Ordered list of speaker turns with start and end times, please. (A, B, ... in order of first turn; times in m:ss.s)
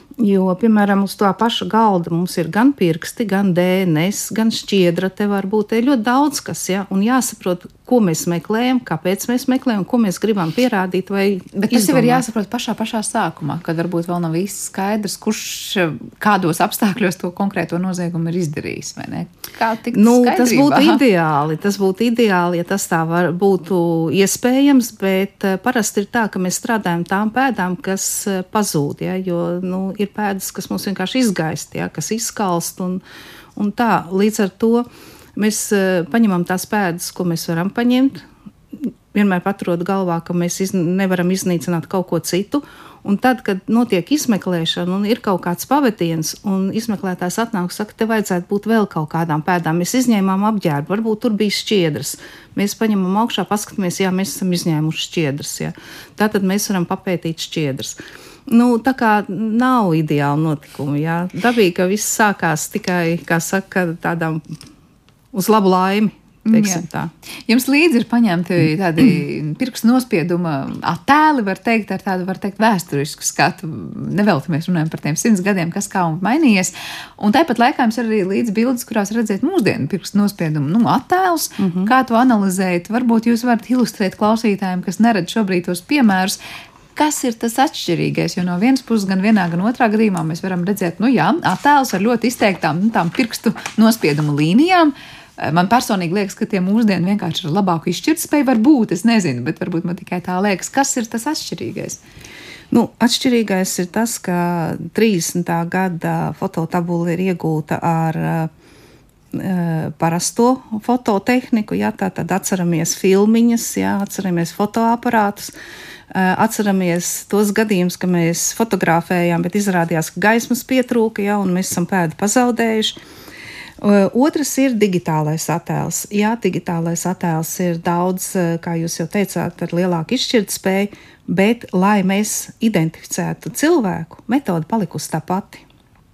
0:00.2-0:12.2 A
0:11.6-0:21.0 B
0:19.9-0:33.0 A
0:33.6-0:38.2 A
0:39.1-1:04.4 A
1:05.3-1:07.1 A
1:06.4-1:06.8 B
1:07.5-1:26.4 B
1:21.6-1:21.9 A
1:27.0-1:42.0 B
1:42.7-1:48.5 A
1:49.3-1:55.5 A
1:56.1-2:03.0 A
2:03.8-2:15.6 A